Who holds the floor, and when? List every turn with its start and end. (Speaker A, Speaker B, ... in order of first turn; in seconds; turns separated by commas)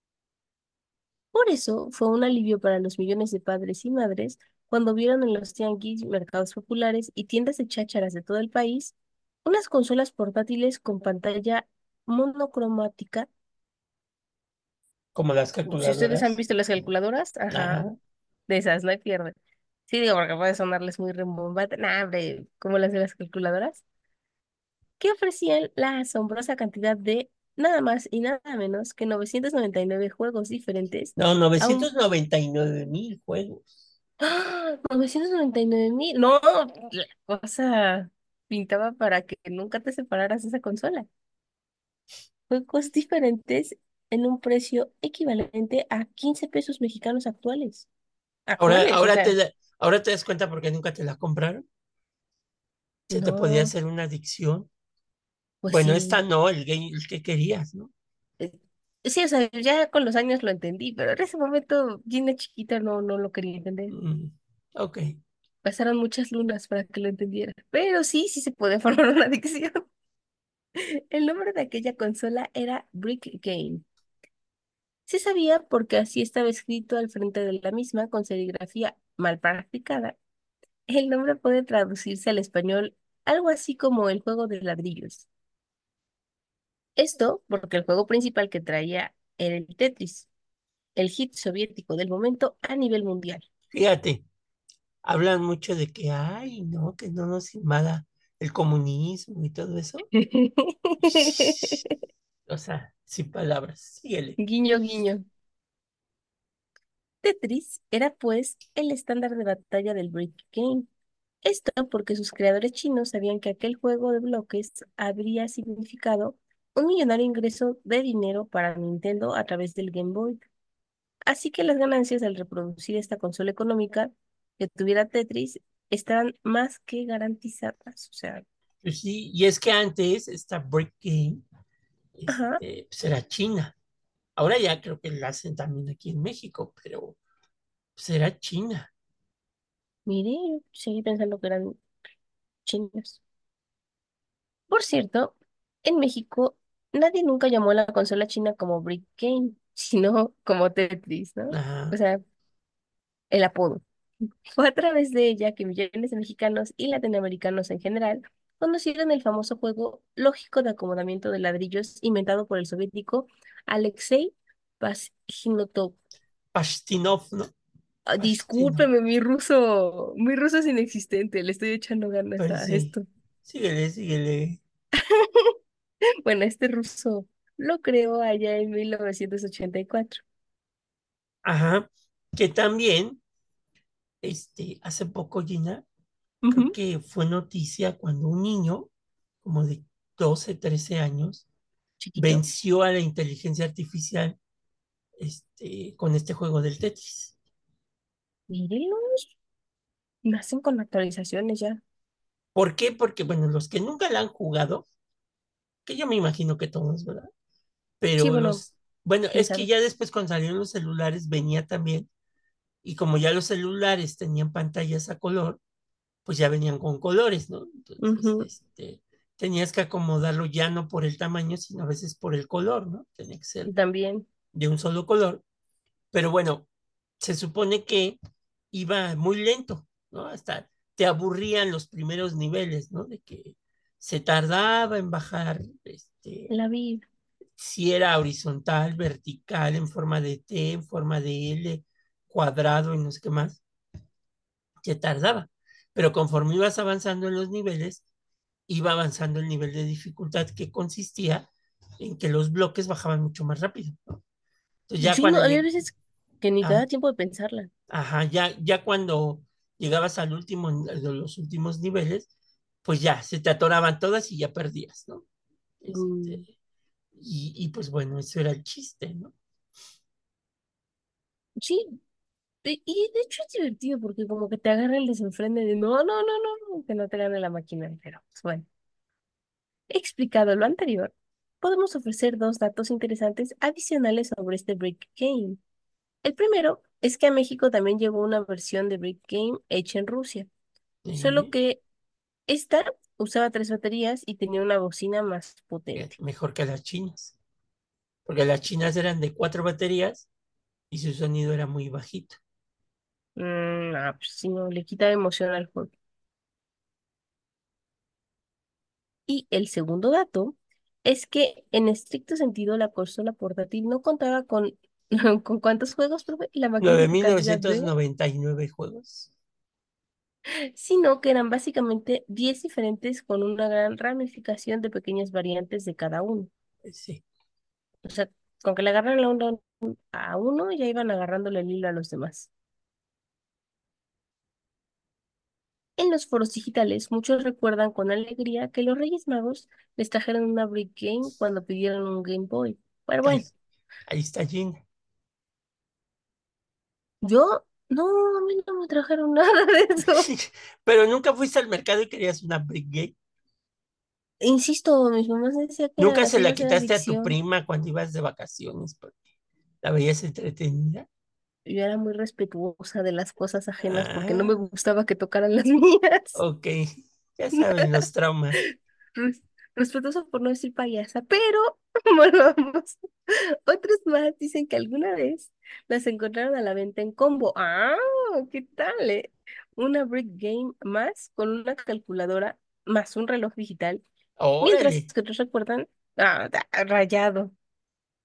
Speaker A: 1.3-8.9, Speaker A: 9.4-13.3, Speaker B: 15.1-16.4, Speaker A: 15.7-17.9, Speaker B: 17.5-17.9, Speaker A: 18.5-19.4, Speaker A: 19.9-23.8, Speaker A: 25.0-31.9, Speaker B: 31.1-33.7, Speaker A: 34.2-41.1, Speaker A: 42.5-47.9, Speaker A: 48.5-49.4, Speaker B: 48.6-51.6, Speaker A: 53.1-53.7, Speaker B: 53.1-54.7, Speaker A: 55.6-56.2, Speaker B: 55.7-57.9, Speaker A: 58.4-63.9, Speaker B: 63.9-65.1, Speaker A: 65.6-69.8, Speaker A: 70.8-73.8, Speaker A: 75.1-80.2, Speaker A: 80.9-85.3, Speaker A: 87.0-90.3, Speaker A: 91.0-93.5, Speaker B: 93.7-94.2, Speaker B: 95.0-100.1, Speaker A: 100.1-102.0, Speaker B: 101.0-101.8, Speaker B: 102.5-104.4, Speaker A: 104.4-105.2, Speaker A: 107.2-110.9, Speaker A: 111.4-120.4, Speaker A: 121.3-128.4, Speaker B: 128.8-131.4, Speaker B: 132.1-133.7, Speaker A: 132.3-132.6, Speaker B: 134.4-137.2, Speaker B: 138.0-138.9, Speaker A: 140.1-141.8, Speaker A: 142.6-143.2, Speaker A: 144.7-152.2, Speaker B: 151.5-152.0, Speaker A: 153.3-153.8, Speaker A: 154.5-166.0, Speaker B: 166.5-167.5, Speaker A: 168.1-173.0, Speaker B: 168.2-168.9, Speaker B: 172.4-172.9, Speaker B: 173.4-174.6, Speaker A: 175.0-175.5, Speaker A: 176.2-180.2, Speaker B: 181.4-183.2, Speaker B: 184.2-185.8, Speaker A: 186.4-186.8, Speaker B: 186.5-188.9, Speaker B: 189.4-191.4, Speaker A: 192.0-192.4, Speaker B: 192.2-194.4, Speaker B: 195.2-197.3, Speaker A: 198.5-199.3, Speaker A: 200.2-201.8, Speaker B: 202.5-204.9, Speaker B: 205.9-207.3, Speaker B: 208.0-212.1, Speaker A: 208.2-208.6, Speaker A: 209.3-209.7, Speaker B: 212.8-215.6, Speaker B: 216.2-223.7, Speaker A: 218.0-218.5, Speaker A: 223.7-224.2, Speaker B: 224.5-225.4, Speaker B: 226.1-226.7, Speaker B: 227.2-228.2, Speaker B: 228.7-236.5, Speaker A: 236.5-237.0, Speaker B: 237.6-243.6, Speaker B: 244.8-248.0, Speaker B: 248.7-254.2, Speaker B: 254.9-255.7, Speaker A: 255.0-257.7, Speaker B: 257.9-262.3, Speaker B: 262.8-265.2, Speaker B: 265.8-266.5, Speaker A: 265.9-266.4, Speaker B: 267.1-269.3, Speaker A: 271.6-271.9, Speaker A: 272.6-278.6, Speaker A: 279.9-285.6, Speaker A: 286.2-290.5, Speaker B: 291.0-291.5, Speaker A: 291.2-291.8, Speaker A: 292.5-296.1, Speaker B: 295.9-297.4, Speaker B: 298.2-300.3, Speaker B: 300.9-302.4, Speaker A: 303.4-305.9, Speaker A: 309.3-317.9, Speaker B: 316.8-319.3, Speaker A: 320.8-326.5, Speaker B: 326.8-327.2, Speaker A: 328.0-332.5, Speaker A: 336.0-343.5, Speaker B: 343.2-343.5, Speaker B: 344.1-344.8, Speaker A: 347.2-350.3, Speaker B: 350.1-353.1, Speaker A: 354.4-357.4, Speaker B: 356.0-359.2, Speaker B: 359.8-361.1, Speaker A: 361.6-366.4, Speaker B: 363.8-364.5, Speaker B: 366.4-368.6, Speaker A: 367.5-368.0, Speaker A: 369.1-373.0, Speaker A: 373.6-384.0, Speaker B: 384.4-385.1, Speaker A: 384.6-387.5